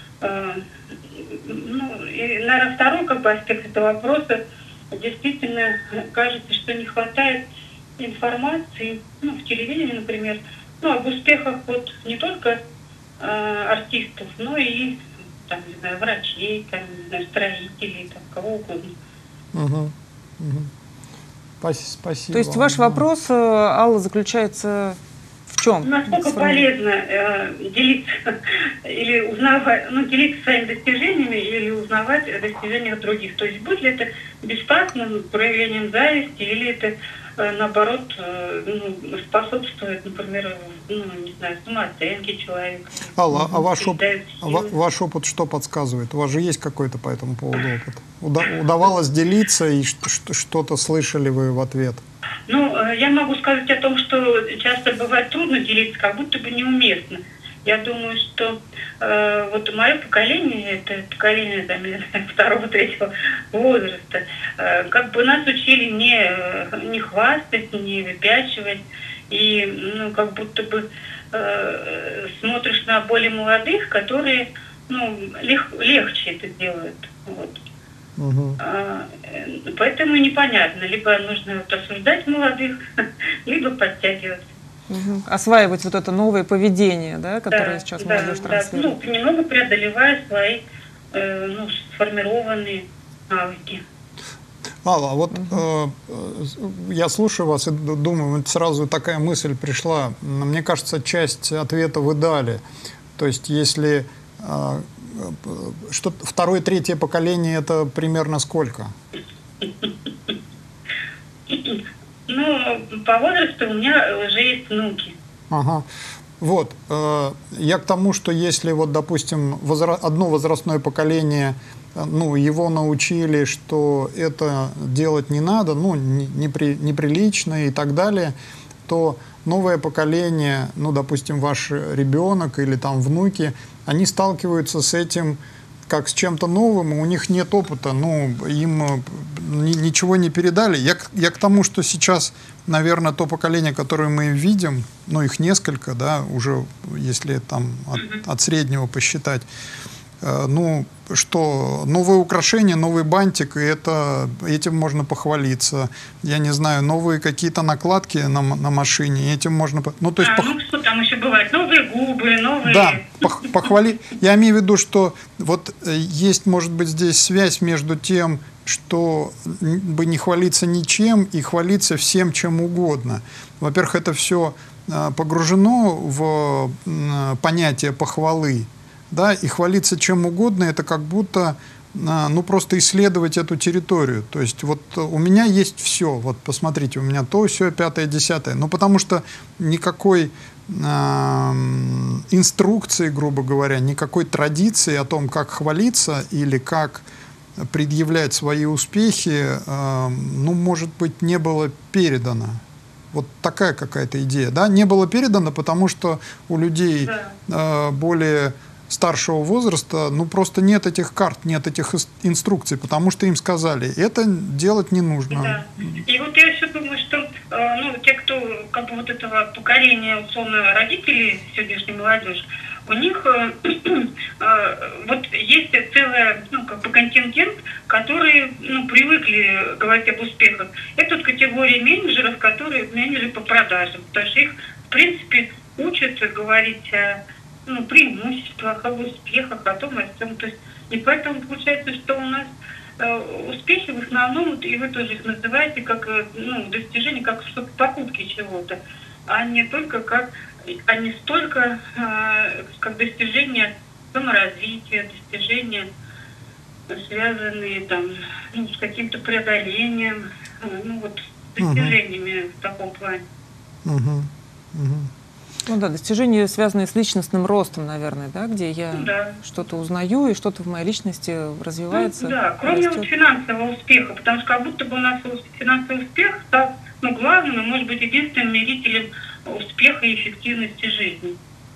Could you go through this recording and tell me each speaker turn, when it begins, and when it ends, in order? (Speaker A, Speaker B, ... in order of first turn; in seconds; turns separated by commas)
Speaker A: 0.2-4.4, Speaker A: 4.9-7.5, Speaker A: 8.0-12.6, Speaker A: 13.2-18.9, Speaker B: 19.5-20.7, Speaker B: 21.6-23.0, Speaker C: 22.3-25.0, Speaker C: 25.5-26.6, Speaker A: 25.8-44.7, Speaker B: 43.1-52.0, Speaker C: 43.3-43.6, Speaker A: 52.5-77.6, Speaker B: 78.2-78.6, Speaker A: 78.6-84.5, Speaker C: 84.9-88.9, Speaker A: 87.5-93.8, Speaker B: 94.8-102.6, Speaker C: 95.3-95.6, Speaker B: 103.2-108.9, Speaker A: 109.6-109.9, Speaker A: 111.5-115.2, Speaker B: 115.5-115.9, Speaker B: 116.4-128.3, Speaker B: 128.9-149.5, Speaker A: 147.9-148.2, Speaker B: 150.2-160.5, Speaker A: 160.2-163.2, Speaker B: 162.6-197.1, Speaker B: 197.6-216.0, Speaker A: 207.0-207.3, Speaker A: 215.3-255.9, Speaker A: 256.9-263.2, Speaker B: 261.6-261.9, Speaker B: 263.8-265.1, Speaker C: 265.7-273.0, Speaker A: 268.9-269.4, Speaker A: 271.9-281.4